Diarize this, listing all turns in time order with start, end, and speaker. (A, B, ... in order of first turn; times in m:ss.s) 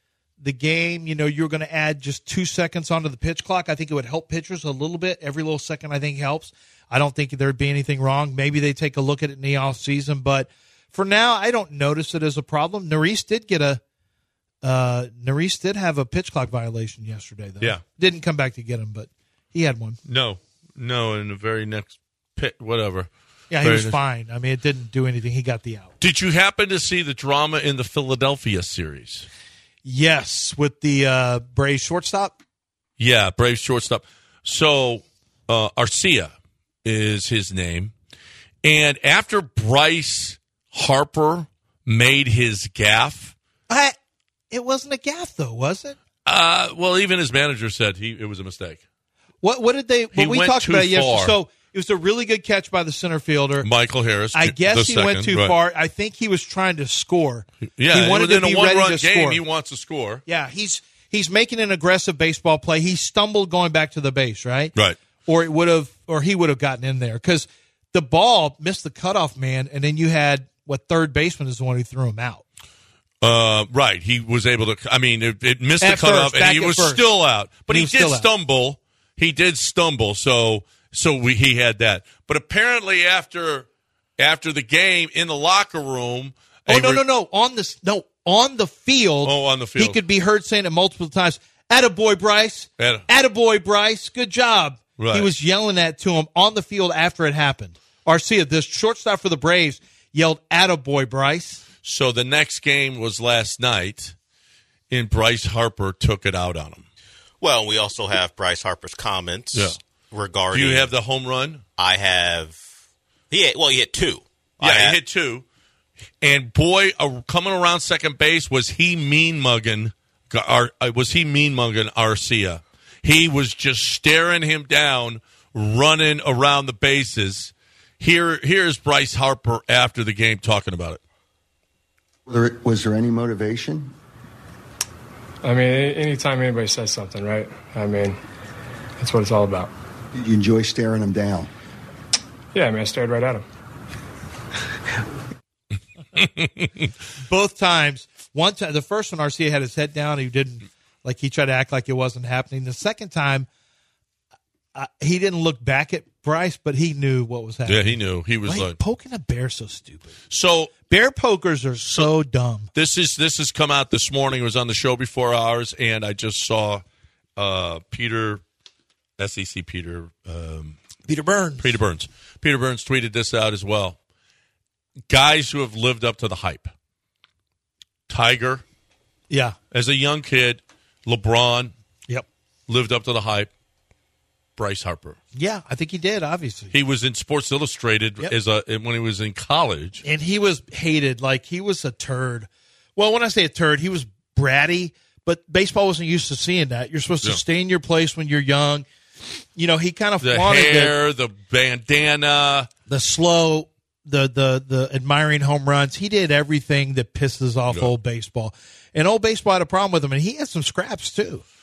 0:00.4-0:13.8 A
0:14.6-0:20.0 A
0:20.1-0:23.1 B
0:23.5-0:25.9 A
0:23.6-0:24.0 B
0:26.0-0:29.3 B
0:29.8-0:32.4 A
0:33.0-0:36.3 B
0:36.8-0:37.9 B
0:38.6-0:43.3 B
0:43.7-0:44.0 A
0:44.5-0:46.0 A
0:46.3-0:48.8 B
0:49.4-0:53.7 A
0:50.1-0:51.4 B
0:53.6-0:55.6 B
0:54.3-0:59.4 A
0:57.8-1:00.2 B
1:00.3-1:04.8 A
1:05.3-1:12.4 A
1:13.2-1:23.7 B
1:15.8-1:17.0 A
1:17.7-1:18.3 A
1:24.2-1:27.0 B
1:26.7-1:41.6 A
1:29.2-1:30.0 B
1:32.8-1:33.1 B
1:35.0-1:35.3 B
1:41.8-1:44.1 B
1:44.9-1:46.9 B
1:47.4-1:50.9 C
1:50.5-1:51.6 B
1:51.8-1:52.6 C
1:53.3-1:55.0 C
1:54.6-1:55.4 B
1:56.2-2:11.0 B
2:12.3-2:14.0 D
2:15.4-2:18.2 E
2:19.0-2:19.7 E
2:20.1-2:21.5 D
2:22.5-2:23.4 E
2:26.2-2:26.9 B
2:27.2-2:33.5 A
2:34.8-2:40.1 A
2:37.7-2:38.8 B
2:40.3-2:40.7 B
2:40.9-2:42.7 A
2:42.8-2:46.8 B
2:47.4-2:48.4 B
2:49.2-2:50.8 B
2:51.1-2:51.7 A
2:51.6-2:54.0 B
2:55.1-2:56.7 B
2:58.1-2:58.6 B
2:59.3-2:59.6 A
2:59.7-3:01.7 B
3:02.7-3:03.5 B
3:04.6-3:05.2 B
3:05.4-3:06.7 A
3:06.7-3:10.0 B
3:10.0-3:18.9 A
3:19.6-3:21.0 A
3:20.2-3:22.7 B
3:22.9-3:31.4 A